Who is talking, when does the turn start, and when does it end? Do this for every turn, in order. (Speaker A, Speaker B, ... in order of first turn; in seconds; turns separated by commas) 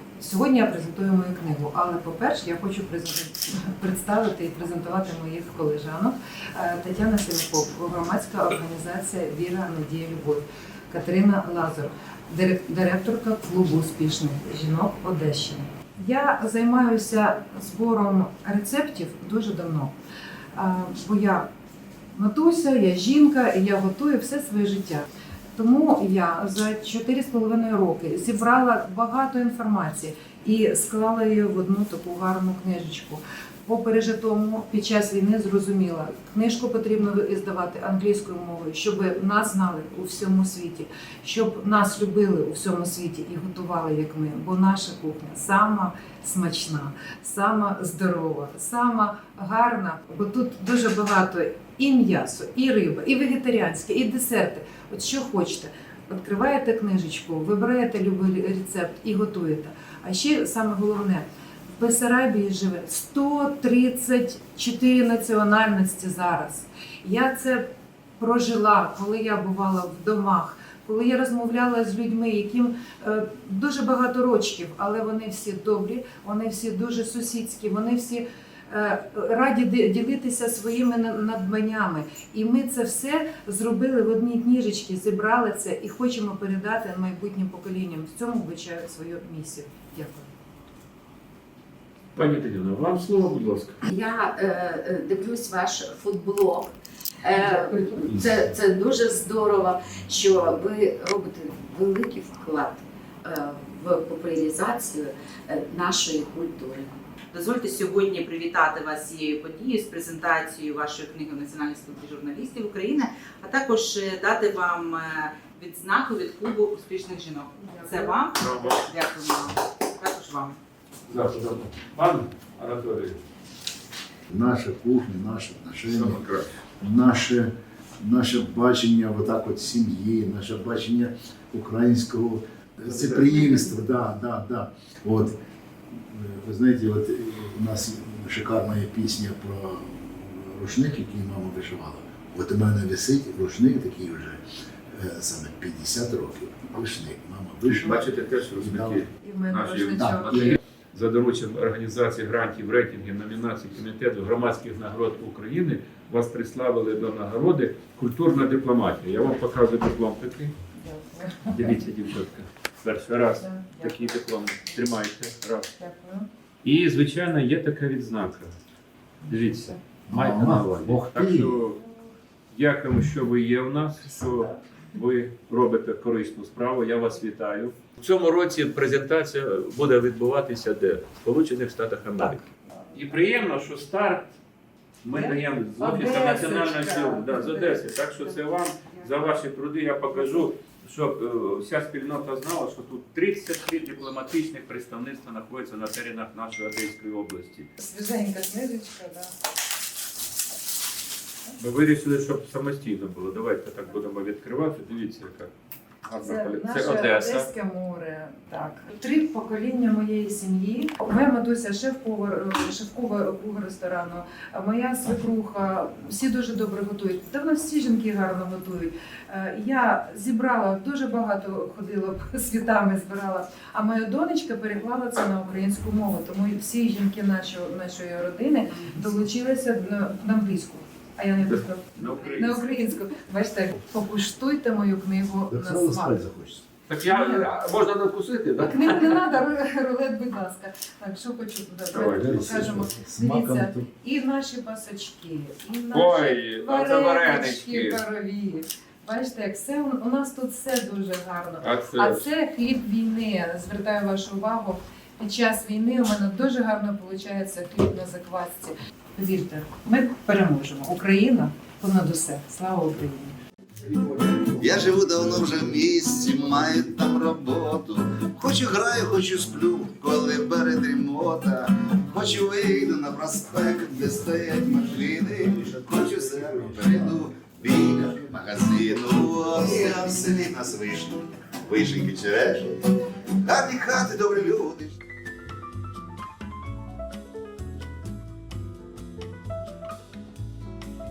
Speaker A: 0.2-19.9, Speaker A: 20.5-21.5, Speaker A: 22.1-90.3, Speaker B: 92.2-93.8, Speaker C: 93.9-106.9, Speaker A: 97.3-98.1, Speaker D: 107.3-120.6, Speaker A: 117.6-118.2, Speaker B: 118.4-118.9, Speaker B: 121.1-123.2, Speaker E: 124.3-126.2, Speaker B: 125.8-126.5, Speaker E: 126.8-135.4, Speaker B: 133.0-133.3, Speaker E: 135.9-149.1, Speaker B: 147.7-160.5, Speaker A: 149.2-150.6, Speaker E: 149.9-150.6, Speaker A: 160.7-161.8, Speaker B: 161.5-165.7, Speaker A: 163.4-164.2, Speaker A: 165.8-166.3, Speaker B: 166.6-168.5, Speaker B: 169.3-171.8, Speaker E: 170.1-171.6, Speaker B: 172.5-184.3, Speaker A: 182.8-183.2, Speaker B: 185.0-197.7, Speaker A: 185.1-189.1, Speaker A: 197.8-199.3, Speaker B: 201.6-205.5, Speaker B: 206.1-207.5, Speaker A: 206.2-236.2, Speaker B: 231.5-232.6, Speaker E: 235.5-236.7, Speaker B: 236.9-239.2, Speaker A: 237.1-237.5, Speaker A: 238.6-263.4, Speaker B: 241.9-242.5, Speaker E: 242.1-243.9, Speaker B: 245.9-248.0, Speaker B: 251.6-252.3, Speaker F: 264.1-282.9, Speaker E: 275.4-277.1, Speaker F: 283.4-284.9